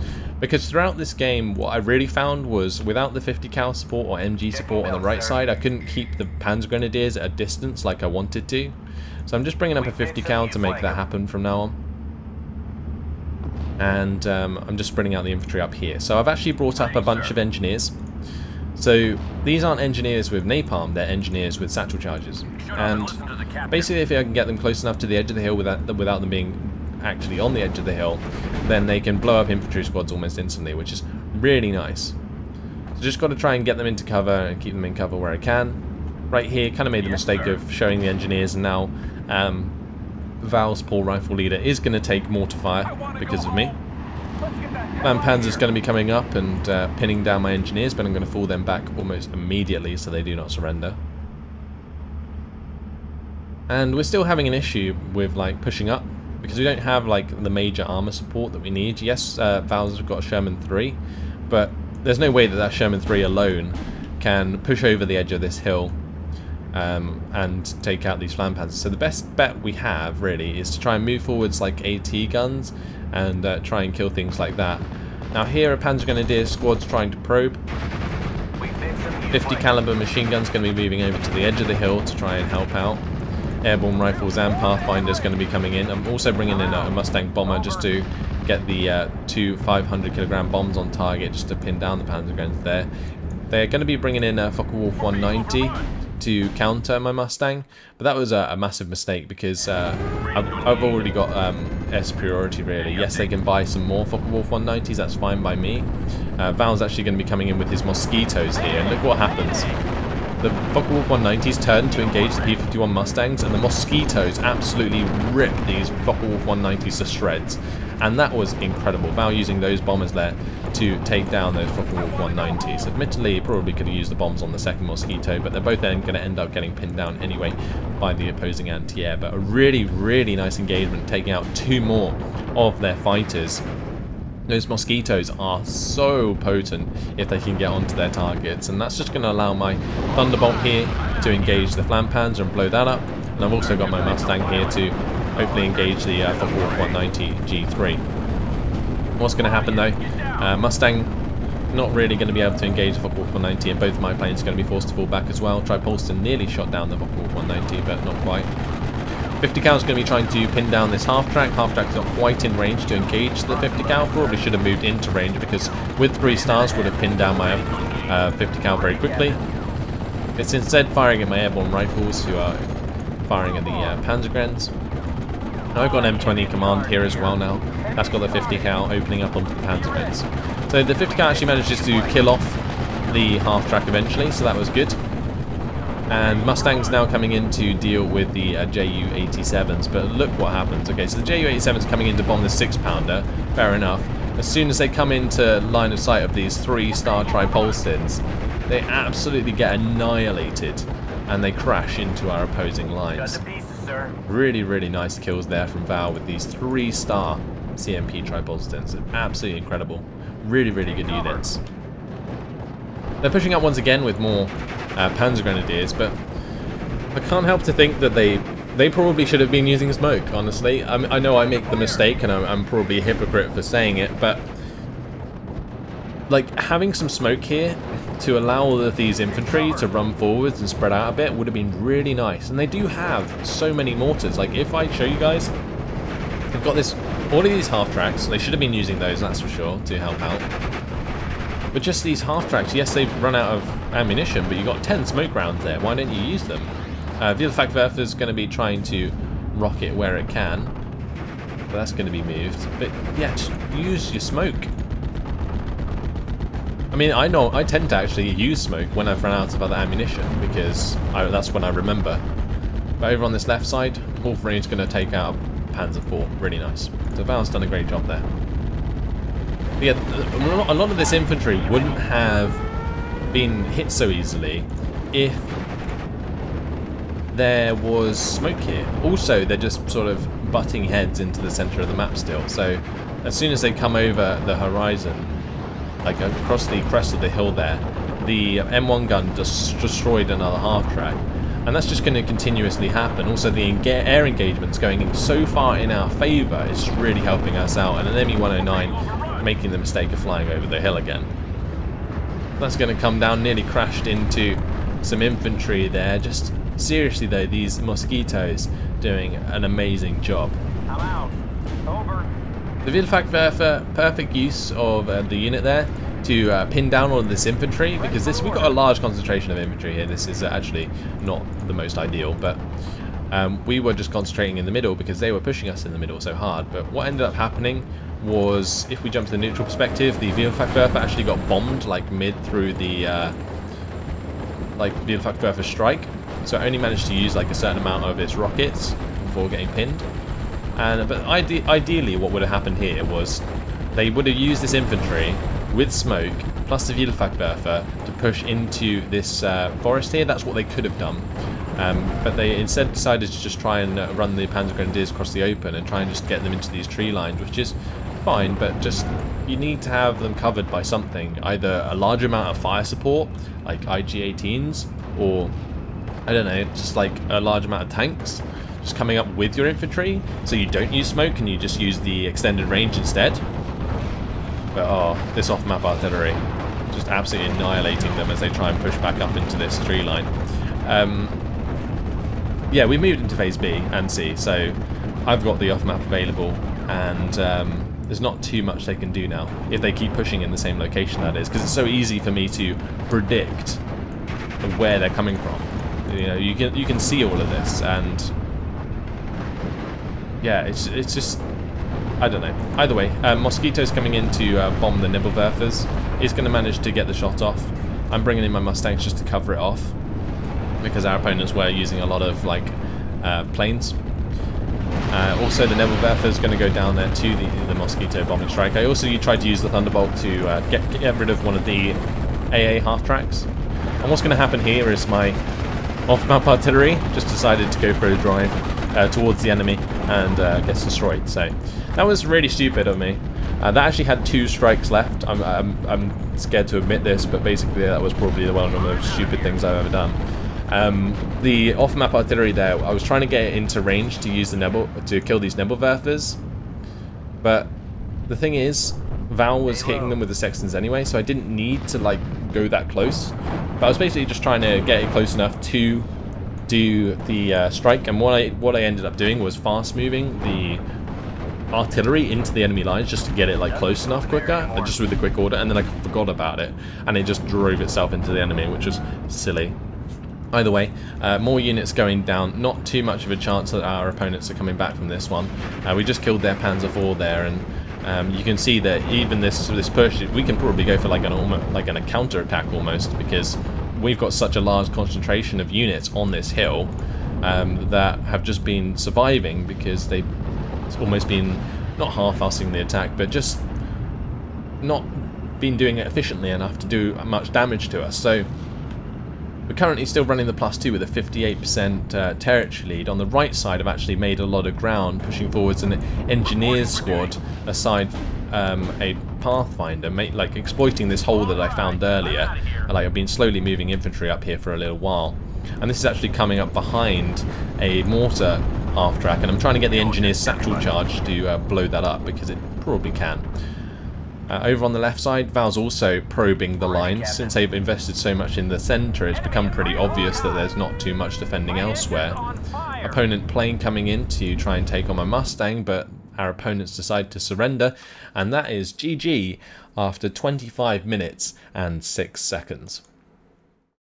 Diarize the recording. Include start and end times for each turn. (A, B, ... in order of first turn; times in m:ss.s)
0:00.4-0:08.8 A
0:04.5-0:05.4 B
0:09.3-0:11.8 A
0:09.8-0:11.0 B
0:13.8-0:18.0 A
0:18.7-0:32.2 A
0:23.2-0:23.7 B
0:33.0-0:35.8 A
0:36.3-0:39.7 A
0:40.4-0:43.8 A
0:42.9-0:43.7 B
0:44.4-0:45.6 B
0:45.0-0:51.0 A
0:53.7-1:06.0 A
1:06.7-1:17.6 A
1:18.6-1:19.7 B
1:19.3-1:23.0 A
1:23.6-1:32.9 A
1:26.5-1:26.9 B
1:27.4-1:27.9 B
1:33.5-1:49.7 A
1:50.4-2:13.6 A
2:14.5-2:28.0 A
2:29.2-2:31.1 A
2:31.7-2:38.5 A
2:39.4-2:49.4 A
2:43.7-2:44.3 B
2:48.7-2:49.5 B
2:50.4-2:52.6 A
2:53.2-2:54.7 A
2:55.7-3:05.0 A
2:55.8-2:58.8 B
3:01.1-3:02.1 B
3:06.1-3:23.4 A
3:23.1-3:24.2 B
3:24.2-3:31.6 A
3:30.9-3:31.4 B
3:33.2-3:36.2 A
3:37.1-3:44.5 A
3:46.3-3:55.5 A
3:56.5-4:00.5 A
4:01.7-4:10.7 A
4:11.7-4:14.7 A
4:16.9-4:22.2 A
4:23.0-4:28.3 A
4:29.8-4:32.6 A
4:33.3-4:35.6 A
4:37.3-4:45.4 A
4:46.0-5:01.3 A
5:02.6-5:10.6 A
5:10.9-5:12.3 B
5:12.8-5:22.6 A
5:18.0-5:18.8 B
5:23.3-5:33.4 A
5:34.8-5:40.1 A
5:40.8-5:43.4 A
5:43.9-6:05.5 A
6:06.2-6:13.4 A
6:14.7-6:20.3 A
6:20.8-6:21.4 A
6:22.7-6:33.8 A
6:34.6-6:38.3 A
6:40.4-6:41.4 A
6:42.2-6:50.0 A
6:50.8-6:54.0 A
6:55.1-7:03.5 A
7:04.0-7:05.4 A
7:06.1-7:26.4 A
7:27.4-7:27.7 A
7:28.3-7:36.1 A
7:29.7-7:30.2 B
7:36.7-7:40.8 A
7:41.7-7:49.8 A
7:43.7-7:45.0 B
7:50.5-8:10.3 A
8:10.9-8:13.6 A
8:14.8-8:18.5 A
8:19.7-8:43.4 A
8:26.9-8:27.2 B
8:31.5-8:32.9 B
8:39.9-8:40.9 B
8:44.5-8:52.4 A
8:46.8-8:47.6 B
8:49.4-8:50.7 B
8:51.7-8:53.2 B
8:53.0-9:03.0 A